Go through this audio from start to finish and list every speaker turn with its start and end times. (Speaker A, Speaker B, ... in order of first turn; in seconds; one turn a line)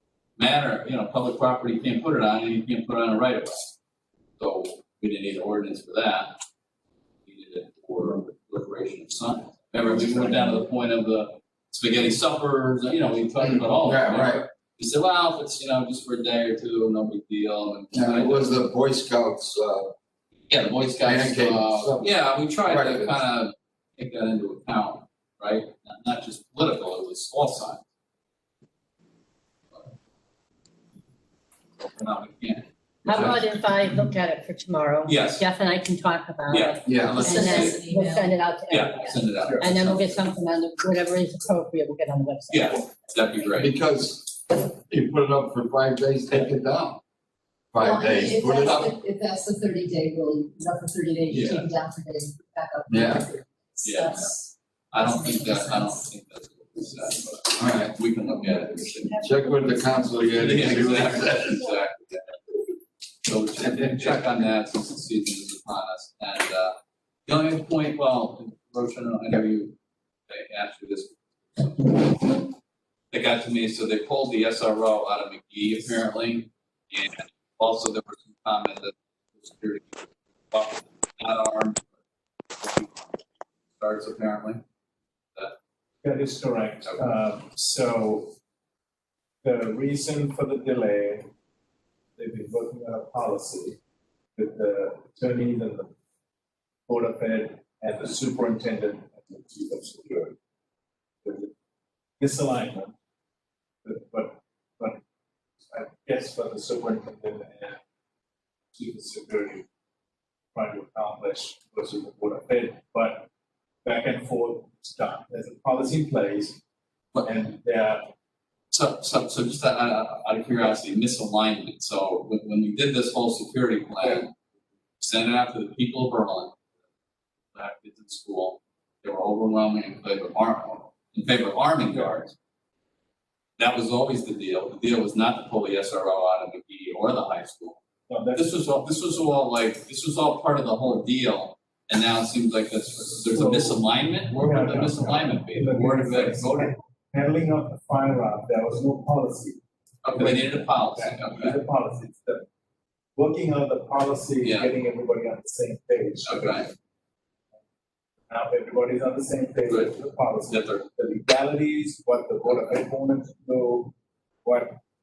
Speaker A: 0.4-3.8
Speaker A: 4.4-6.4
Speaker A: 7.2-18.6
Speaker B: 13.4-14.5
Speaker B: 17.9-19.9
Speaker A: 20.5-27.8
Speaker B: 21.0-23.2
Speaker A: 31.9-33.4
Speaker C: 33.0-38.9
Speaker B: 33.1-33.4
Speaker A: 35.0-35.4
Speaker A: 36.5-37.8
Speaker B: 36.8-37.4
Speaker D: 37.1-39.2
Speaker A: 38.7-40.3
Speaker C: 39.6-42.8
Speaker A: 42.5-43.7
Speaker B: 43.6-47.0
Speaker B: 47.7-48.9
Speaker D: 47.8-56.0
Speaker A: 51.3-51.7
Speaker B: 52.9-53.2
Speaker A: 53.8-54.3
Speaker A: 54.9-59.2
Speaker B: 57.6-57.9
Speaker B: 59.2-61.6
Speaker A: 60.3-62.4
Speaker A: 63.2-66.8
Speaker B: 63.6-64.2
Speaker A: 67.3-69.8
Speaker A: 70.3-72.5
Speaker A: 73.1-81.8
Speaker A: 82.6-83.1
Speaker A: 83.8-84.6
Speaker E: 86.0-88.3
Speaker E: 89.4-91.3
Speaker E: 92.2-93.8
Speaker E: 94.3-95.9
Speaker E: 96.9-100.3
Speaker E: 101.2-101.5
Speaker E: 102.2-102.9
Speaker E: 103.8-105.0
Speaker E: 105.7-107.8
Speaker E: 108.7-109.7
Speaker E: 110.5-113.3
Speaker E: 113.8-116.6
Speaker E: 117.2-118.1
Speaker A: 118.7-124.3
Speaker A: 125.0-126.6
Speaker A: 127.5-132.3
Speaker A: 133.6-137.8
Speaker E: 138.1-138.8
Speaker A: 138.3-146.8
Speaker E: 143.2-152.4
Speaker A: 150.0-151.6
Speaker E: 153.2-156.7
Speaker A: 154.4-154.7
Speaker A: 156.2-156.7
Speaker E: 158.3-163.9
Speaker A: 159.7-160.0
Speaker A: 160.5-160.8
Speaker A: 162.5-162.8
Speaker E: 164.4-164.8